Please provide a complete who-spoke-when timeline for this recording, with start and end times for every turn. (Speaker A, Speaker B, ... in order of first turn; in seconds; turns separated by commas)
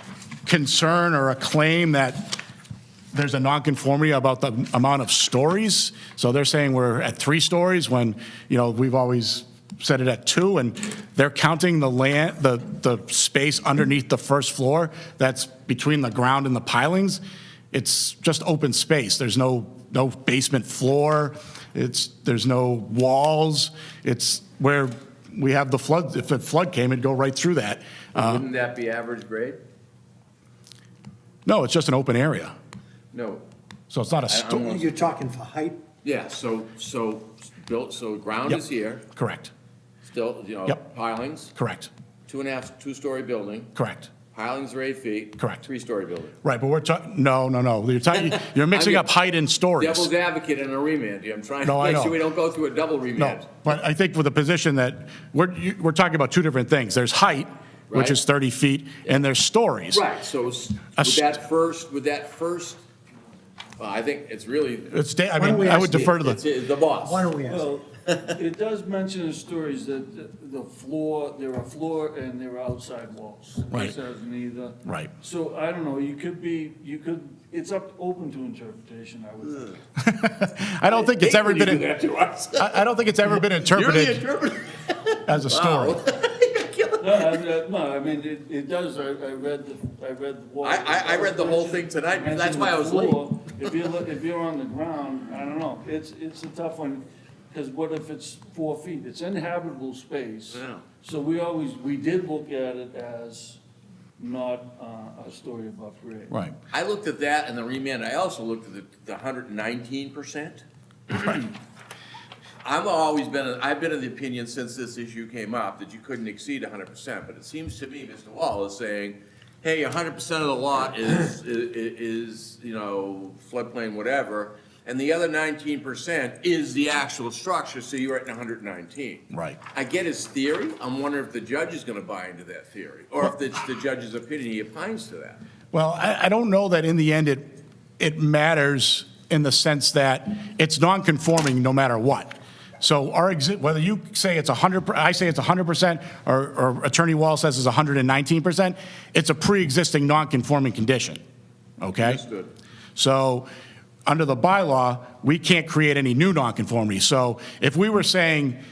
Speaker A: 0.5-2.4, Speaker A: 3.1-17.2, Speaker A: 17.7-28.4, Speaker B: 28.1-29.6, Speaker A: 31.5-32.5, Speaker B: 33.1-33.5, Speaker A: 33.9-34.7, Speaker B: 34.3-35.1, Speaker C: 34.6-35.8, Speaker B: 36.0-39.0, Speaker A: 39.1-39.5, Speaker B: 40.0-41.5, Speaker A: 41.5-41.9, Speaker B: 42.3-43.7, Speaker A: 43.8-44.1, Speaker B: 44.3-46.4, Speaker A: 45.4-45.6, Speaker A: 46.4-50.1, Speaker B: 48.6-49.1, Speaker B: 49.8-53.6, Speaker A: 51.6-52.2, Speaker A: 53.2-60.0, Speaker B: 57.9-58.2, Speaker B: 59.9-62.8, Speaker A: 61.0-61.4, Speaker B: 63.8-64.9, Speaker A: 64.9-66.4, Speaker C: 65.4-66.2, Speaker B: 65.5-67.3, Speaker C: 67.0-67.7, Speaker D: 67.5-79.8, Speaker A: 74.8-75.1, Speaker B: 79.5-79.8, Speaker A: 80.0-81.9, Speaker B: 81.0-87.5, Speaker A: 82.6-84.3, Speaker A: 85.2-86.0, Speaker D: 87.0-103.6, Speaker B: 90.6-93.3, Speaker B: 100.5-100.8, Speaker D: 104.2-106.3, Speaker A: 106.3-106.6, Speaker B: 106.7-111.5, Speaker B: 112.6-135.4, Speaker A: 129.3-129.6, Speaker A: 135.7-151.2, Speaker A: 151.8-152.2, Speaker B: 152.0-152.5, Speaker A: 153.0-153.5, Speaker A: 154.1-158.6